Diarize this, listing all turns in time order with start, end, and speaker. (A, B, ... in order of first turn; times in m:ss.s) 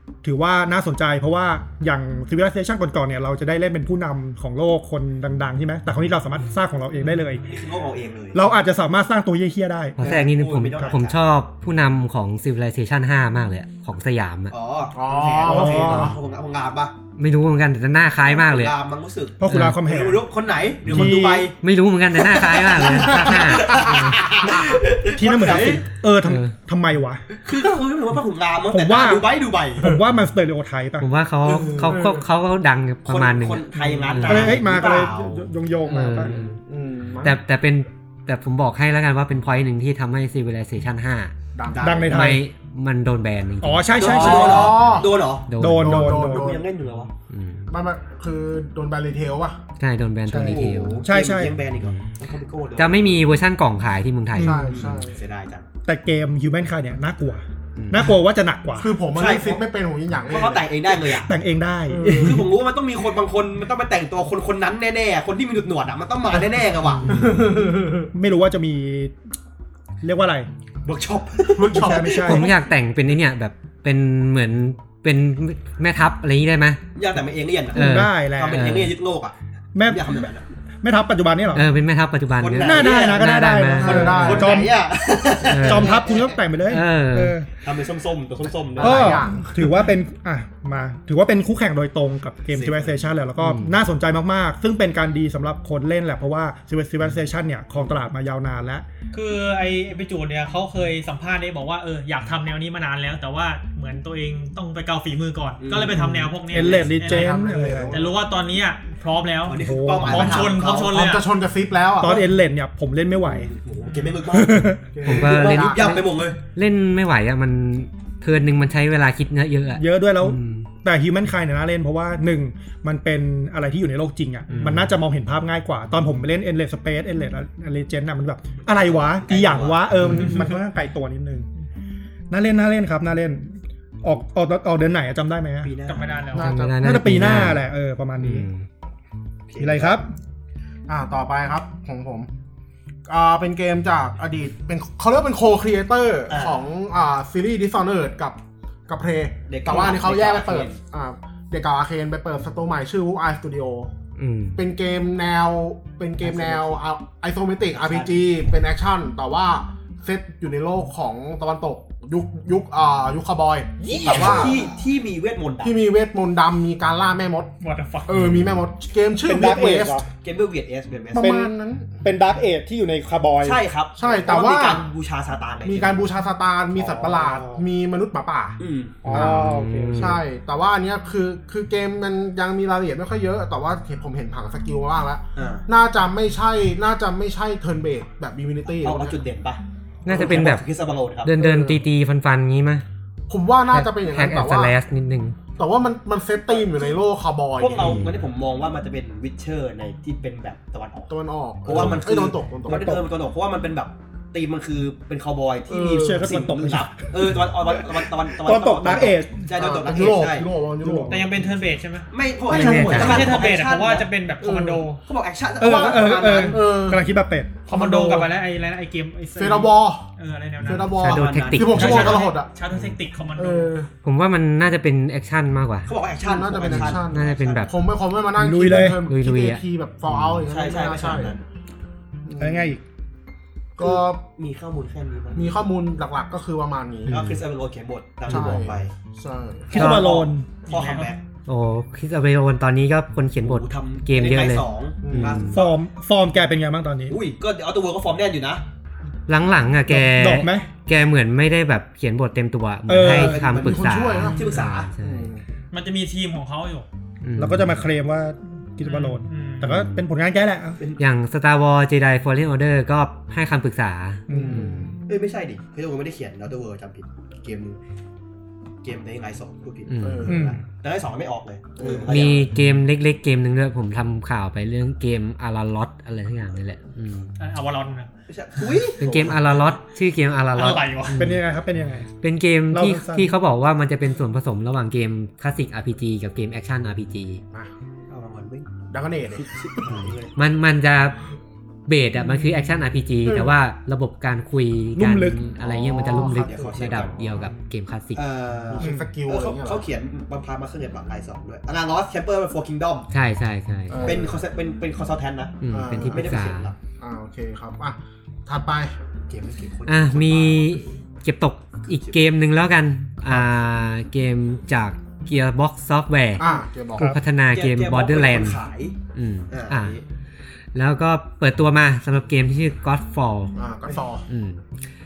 0:00.2-0:07.4 A
0:07.5-0:08.4 B
0:08.3-0:10.1 A
0:10.0-0:14.5 C
0:10.0-0:11.2 B
0:14.5-0:17.0 B
0:14.9-0:16.2 D
0:15.4-0:16.2 A
0:17.2-0:18.8 C
0:18.3-0:21.6 B
0:19.4-0:20.2 A
0:19.5-0:19.8 C
0:20.9-0:21.5 A
0:20.9-0:24.2 C
0:22.2-0:25.8 B
0:23.1-0:24.8 D
0:25.2-0:27.2 A
0:26.2-0:26.5 C
0:27.3-0:30.0 B
0:28.7-0:31.1 A
0:31.0-0:34.6 C
0:31.5-0:32.2 D
0:33.1-0:35.5 B
0:34.2-0:36.4 A
0:35.9-0:36.6 C
0:36.6-0:37.4 D
0:37.2-0:41.3 C
0:41.6-0:42.1 D
0:41.7-0:42.3 B
0:41.8-0:42.4 A
0:42.1-0:46.2 C
0:43.6-0:44.8 A
0:44.0-0:45.5 B
0:44.1-0:45.1 D
0:45.6-0:46.5 A
0:45.8-0:46.6 D
0:46.1-0:47.1 B
0:47.3-0:47.7 C
0:47.7-0:49.6 D
0:49.8-0:51.1 C
0:50.3-0:51.6 A
0:50.3-0:51.1 D
0:51.0-0:53.2 B
0:51.8-0:52.1 C
0:52.8-0:54.9 C
0:54.4-0:54.9 A
0:54.4-0:55.2 D
0:54.5-0:55.7 B
0:55.8-0:59.0 A
0:57.8-0:58.1 C
0:58.8-1:00.7 D
0:59.1-0:59.6 B
1:00.3-1:01.3 B
1:01.1-1:02.4 A
1:01.9-1:02.5 D
1:02.1-1:07.3 B
1:07.0-1:07.3 C
1:07.1-1:08.1 D
1:08.1-1:09.2 A
1:10.0-1:10.5 A
1:10.8-1:12.5 B
1:11.5-1:12.4 D
1:11.7-1:12.5 A
1:12.2-1:16.8 C
1:17.0-1:20.4 B
1:17.7-1:18.7 A
1:17.7-1:18.9 C
1:19.8-1:20.2 A
1:20.8-1:21.7 A
1:21.5-1:24.5 C
1:22.4-1:23.3 B
1:22.6-1:24.7 A
1:23.8-1:24.7 D
1:23.8-1:26.4 B
1:25.4-1:26.0 C
1:25.6-1:27.5 A
1:26.7-1:27.4 C
1:27.6-1:29.3 B
1:28.8-1:29.7 D
1:28.8-1:38.8 A
1:32.5-1:33.0 B
1:33.4-1:33.7 C
1:39.1-1:51.3 E
1:45.6-1:46.1 B
1:46.5-1:48.0 A
1:46.9-1:48.1 D
1:49.5-1:50.9 B
1:49.6-1:50.5 A
1:50.9-1:52.2 D
1:52.0-1:53.5 A
1:53.3-1:56.4 B
1:53.8-1:54.2 E
1:54.3-1:54.8 A
1:54.9-1:55.8 D
1:55.0-2:00.7 C
1:59.8-2:11.5 A
2:04.5-2:04.9 C
2:08.7-2:10.0 B
2:10.0-2:10.4 C
2:10.1-2:10.5 E
2:12.3-2:15.7 A
2:15.6-2:16.2 B
2:15.9-2:16.6 E
2:16.3-2:17.0 D
2:16.4-2:17.6 C
2:16.8-2:18.5 A
2:18.2-2:18.7 C
2:19.5-2:20.0 B
2:19.6-2:20.1 A
2:20.9-2:22.3 D
2:23.1-2:33.9 D
2:26.3-2:26.6 B
2:29.5-2:30.8 B
2:34.2-2:34.6 C
2:34.6-2:44.7 D
2:36.2-2:36.8 B
2:37.8-2:38.2 B
2:43.8-2:45.8 B
2:45.6-2:47.5 D
2:47.6-2:48.4 E
2:48.1-2:50.1 D
2:49.2-2:50.1 A
2:50.2-2:51.4 B
2:51.1-2:52.0 D
2:51.2-2:51.5 A
2:52.0-2:53.6 A
2:53.4-2:56.1 B
2:54.0-2:54.9 D
2:55.6-3:09.2 D
2:56.8-2:57.3 A
2:56.9-2:57.5 B
2:58.6-2:59.1 B
2:59.0-3:00.2 A
2:59.1-3:00.2 C
3:05.4-3:05.7 B
3:08.8-3:11.3 B
3:10.0-3:10.7 C
3:11.2-3:12.8 C
3:11.4-3:11.8 D
3:13.3-3:14.8 D
3:13.7-3:15.4 C
3:15.6-3:18.1 D
3:16.5-3:16.9 B
3:17.6-3:21.1 B
3:17.8-3:18.2 C
3:21.1-3:23.0 D
3:21.7-3:30.5 B
3:25.7-3:26.3 D
3:26.0-3:29.5 A
3:29.6-3:31.3 D
3:30.8-3:31.2 A
3:31.1-3:35.0 E
3:32.1-3:34.1 B
3:32.5-3:33.3 C
3:32.6-3:33.2 A
3:32.6-3:33.2 D
3:34.4-3:34.9 D
3:35.0-3:36.6 B
3:35.6-3:38.2 A
3:36.4-3:37.0 D
3:37.7-3:40.9 E
3:37.7-3:38.2 D
3:39.4-3:40.0 D
3:40.6-3:42.5 D
3:40.7-3:42.9 C
3:41.0-3:42.1 B
3:41.7-3:43.7 E
3:43.4-3:43.9 D
3:44.0-3:45.9 C
3:45.9-3:47.7 B
3:46.2-3:51.4 D
3:46.7-3:47.7 C
3:48.4-3:49.0 A
3:49.1-3:50.5 C
3:50.5-3:51.4 B
3:52.2-3:52.7 D
3:52.4-3:52.8 A
3:53.8-3:54.2 D
3:53.8-3:55.6 B
3:55.3-3:57.2 D
3:57.1-3:57.4 C
3:57.1-3:58.9 B
3:58.3-3:59.8 D
3:58.3-3:58.6 C
3:59.7-4:00.6 A
3:59.7-4:01.2 B
3:59.8-4:00.1 C
4:00.7-4:01.1 E
4:01.5-4:05.6 C
4:03.4-4:05.7 B
4:05.0-4:05.5 D
4:05.5-4:07.2 A
4:07.1-4:08.6 B
4:09.3-4:15.3 C
4:09.9-4:10.7 A
4:12.9-4:13.4 A
4:13.1-4:14.9 B
4:13.1-4:15.4 D
4:14.2-4:14.5 E
4:15.7-4:16.9 E
4:17.2-4:17.8 C
4:17.4-4:20.8 A
4:18.8-4:19.8 E
4:19.7-4:20.0 C
4:21.0-4:24.9 C
4:24.3-4:24.8 A
4:24.3-4:24.9 D
4:25.1-4:27.8 B
4:28.8-4:32.5 B
4:29.9-4:30.4 C
4:30.0-4:30.5 D
4:30.3-4:30.6 A
4:31.8-4:32.3 D
4:32.1-4:37.3 C
4:37.4-4:38.1 E
4:38.3-4:39.3 B
4:39.0-4:41.4 C
4:39.0-4:39.4 D
4:40.6-4:41.2 E
4:41.2-4:42.1 A
4:42.2-4:47.4 C
4:42.7-4:43.3 A
4:48.1-4:48.7 B
4:48.9-4:50.0 D
4:49.3-4:50.3 B
4:49.9-4:51.2 C
4:51.9-4:58.2 C
4:53.2-4:53.5 D
4:55.0-4:55.4 A
4:55.6-4:56.9 D
4:56.4-4:57.5 B
4:58.2-5:03.1 B
4:58.7-4:59.8 D
4:58.8-4:59.1 A
5:03.1-5:04.1 C
5:03.9-5:04.4 D
5:04.0-5:06.8 B
5:05.6-5:06.7 C
5:05.7-5:06.4 D
5:07.0-5:08.9 D
5:09.3-5:10.8 B
5:09.9-5:18.6 C
5:11.9-5:12.2 B
5:16.4-5:17.2 D
5:17.5-5:19.0 B
5:19.1-5:20.0 C
5:19.5-5:20.0 B
5:20.8-5:23.6 C
5:23.6-5:24.2 D
5:24.3-5:24.6 C